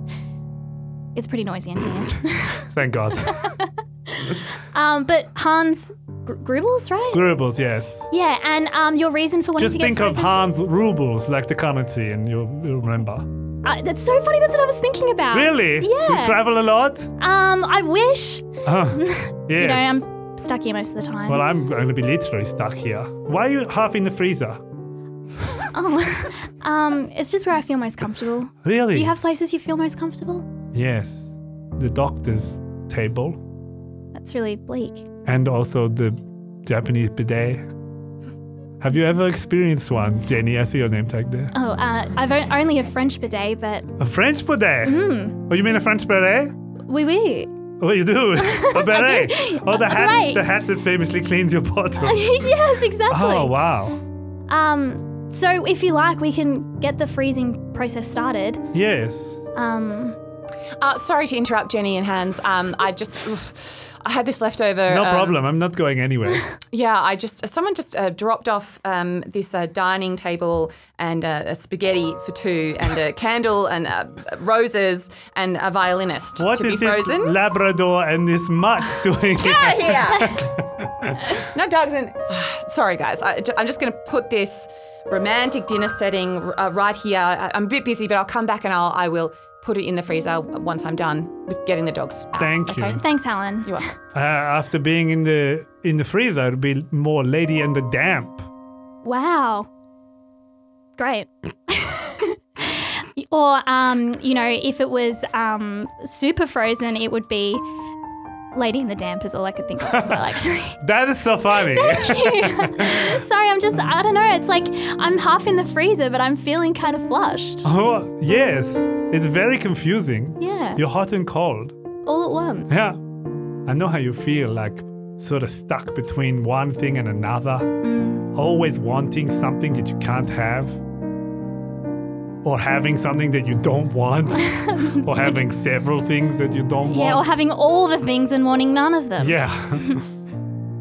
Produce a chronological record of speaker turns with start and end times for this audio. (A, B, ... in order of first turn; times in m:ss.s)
0:01.2-0:02.7 A
0:02.7-0:03.6 B
0:03.2-0:07.3 A
0:07.1-0:08.1 B
0:08.1-0:10.4 A
0:09.6-0:13.3 B
0:13.6-0:16.4 A
0:15.3-0:17.1 B
0:17.2-0:21.4 A
0:18.6-0:20.0 B
0:21.3-0:24.6 B
0:25.7-0:30.5 A
0:28.6-0:29.1 B
0:30.7-0:33.4 B
0:34.1-0:35.1 A
0:35.2-0:37.7 B
0:38.8-0:41.5 B
0:41.5-0:43.9 A
0:44.0-0:46.5 B
0:44.8-0:45.4 A
0:46.9-0:47.5 A
0:47.8-0:52.4 B
0:48.4-0:50.4 A
0:52.0-0:53.6 A
0:53.1-0:54.0 B
0:54.5-0:58.7 A
0:58.7-0:59.4 B
0:59.6-1:00.2 A
1:00.8-1:05.4 C
1:04.9-1:06.5 B
1:06.7-1:17.4 C
1:16.4-1:21.4 B
1:19.4-1:20.5 C
1:21.3-1:33.0 C
1:32.4-1:33.0 B
1:32.8-1:33.8 A
1:34.1-1:38.5 B
1:39.0-1:39.7 A
1:41.0-1:47.6 A
1:48.5-1:50.8 A
1:49.9-1:53.2 B
1:51.6-1:57.7 A
1:57.6-2:01.7 B
2:00.4-2:00.8 A
2:02.1-2:02.7 A
2:02.7-2:03.0 B
2:03.7-2:07.8 B
2:07.8-2:08.3 A
2:08.3-2:10.8 B
2:12.4-2:17.3 B
2:14.5-2:15.4 A
2:16.9-2:19.9 A
2:19.2-2:20.0 B